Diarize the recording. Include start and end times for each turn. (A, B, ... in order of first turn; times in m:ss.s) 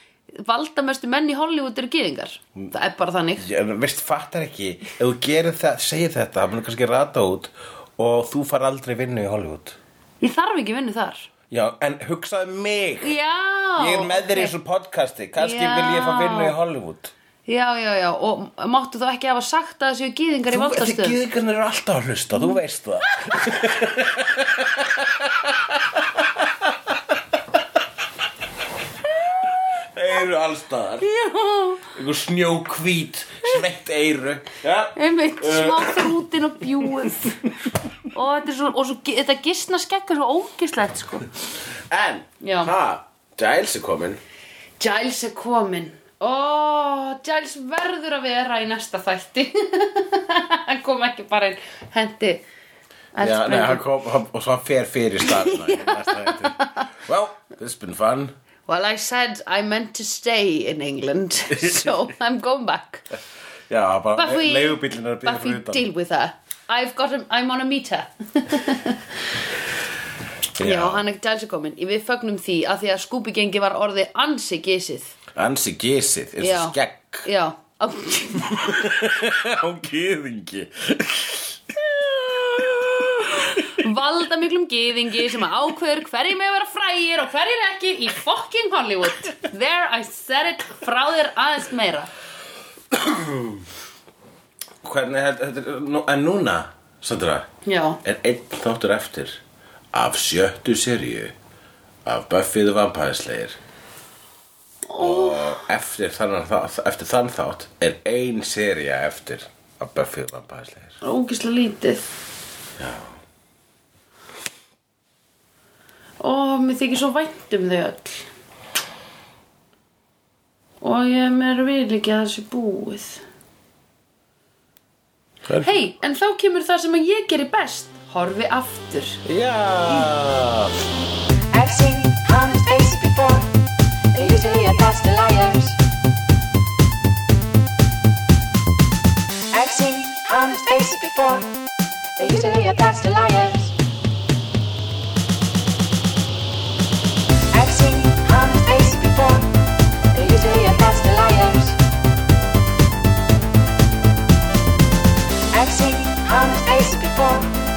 0:00.4-0:03.5 A
0:03.4-0:09.8 B
0:10.2-0:11.3 A
0:11.5-0:13.2 B
0:13.0-0:14.5 A
0:13.8-0:17.1 B
0:15.4-0:16.5 A
0:17.5-0:21.2 A
0:20.5-0:27.2 B
0:29.2-0:29.6 A
0:29.4-0:31.1 B
0:31.0-0:31.9 A
0:31.9-0:36.2 B
0:35.0-0:37.5 A
0:36.8-0:37.2 B
0:38.1-0:41.3 A
0:41.9-0:44.2 B
0:42.4-0:42.7 A
0:44.8-0:52.4 A
0:53.2-0:53.8 A
0:53.2-0:58.3 B
0:55.2-0:56.9 A
0:58.7-1:03.0 A
1:01.6-1:01.9 B
1:03.7-1:05.8 B
1:04.2-1:09.4 A
1:10.6-1:11.0 B
1:10.6-1:15.2 A
1:15.4-1:17.3 B
1:16.4-1:18.9 A
1:18.5-1:23.8 B
1:23.3-1:32.1 A
1:32.9-1:33.6 B
1:34.8-1:37.5 B
1:37.6-1:38.0 A
1:38.0-1:39.4 B
1:39.9-1:41.3 B
1:42.0-1:43.6 B
1:44.9-1:45.6 A
1:45.0-1:51.0 B
1:51.0-1:52.1 A
1:52.8-1:53.2 B
1:56.2-1:58.3 A
2:00.8-2:03.2 A
2:05.5-2:05.8 B
2:05.6-2:09.2 A
2:09.2-2:10.7 B
2:11.6-2:13.3 A
2:11.8-2:13.4 C
2:14.1-2:15.7 A
2:14.3-2:15.4 C
2:19.5-2:21.4 C
2:19.6-2:21.1 A
2:22.2-2:23.6 A
2:22.5-2:23.5 C
2:27.5-2:29.4 C
2:27.6-2:29.4 A
2:30.1-2:31.7 A
2:30.3-2:31.5 C
2:35.6-2:37.4 A
2:35.6-2:37.4 C